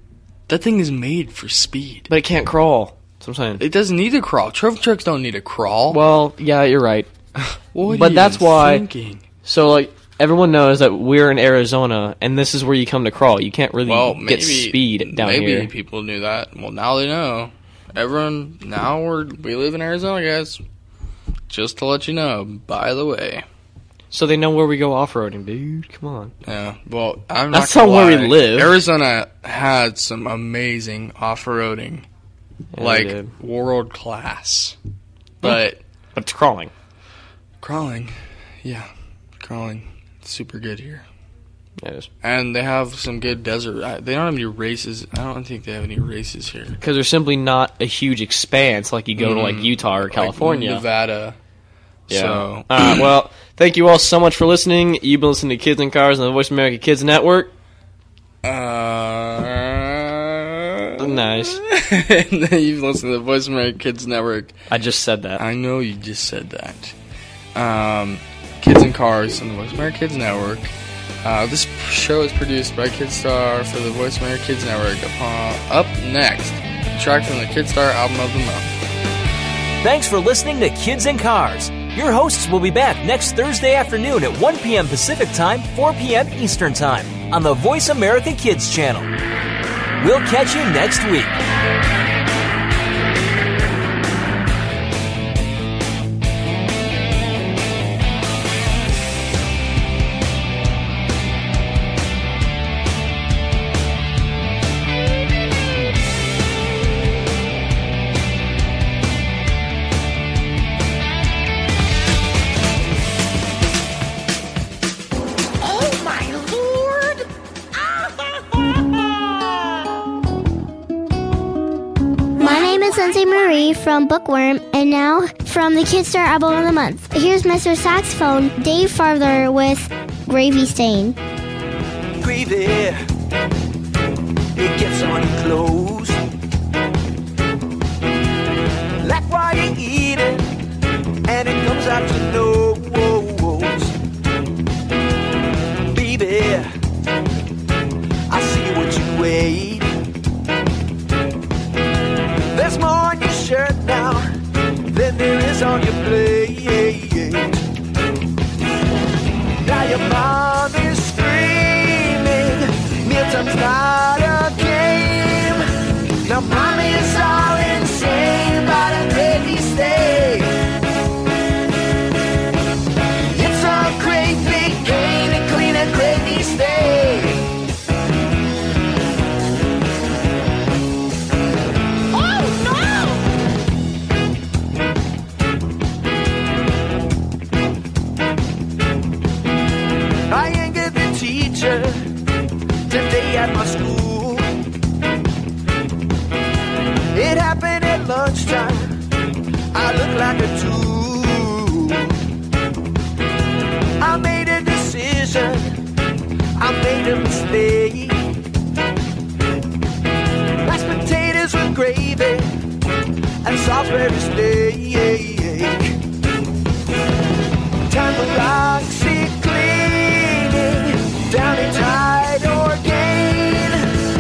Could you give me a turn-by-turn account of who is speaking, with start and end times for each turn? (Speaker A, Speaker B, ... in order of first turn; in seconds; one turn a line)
Speaker A: 0.5-2.1
Speaker B: 2.1-3.6
Speaker A: 3.6-6.0
Speaker B: 5.9-7.1
Speaker A: 7.4-9.2
Speaker B: 7.9-8.8
Speaker B: 9.4-15.7
Speaker A: 13.8-20.6
Speaker A: 21.5-23.4
Speaker B: 24.1-26.3
Speaker A: 26.4-32.1
Speaker B: 27.5-28.8
Speaker B: 32.7-33.3
Speaker A: 32.8-34.8
Speaker A: 35.4-35.8
Speaker B: 36.1-36.7
Speaker A: 37.6-38.9
Speaker A: 39.4-41.1
Speaker B: 41.8-42.1
Speaker A: 42.2-46.8
Speaker B: 46.8-50.8
Speaker A: 49.2-51.4
Speaker A: 52.1-53.0
Speaker B: 52.1-57.5
Speaker A: 58.4-64.5
Speaker B: 61.0-61.6
Speaker B: 64.7-65.4
Speaker A: 65.4-67.0
Speaker A: 67.5-78.8
Speaker C: 79.8-89.1
Speaker C: 90.0-91.4
Speaker D: 122.4-131.2
Speaker E: 132.2-133.1
Speaker E: 134.6-136.2
Speaker E: 139.0-140.6
Speaker E: 141.3-143.9
Speaker E: 145.9-146.7
Speaker E: 148.3-149.9
Speaker E: 152.5-154.3
Speaker E: 154.8-157.6
Speaker E: 159.6-165.6
Speaker E: 166.2-170.6
Speaker E: 173.3-177.5
Speaker E: 182.2-183.2
Speaker E: 190.3-192.1
Speaker E: 192.9-194.5
Speaker E: 197.1-199.0
Speaker E: 199.7-202.2
Speaker E: 204.0-205.8
Speaker E: 206.6-208.4
Speaker E: 210.6-212.6
Speaker E: 213.4-216.0
Speaker E: 217.9-224.0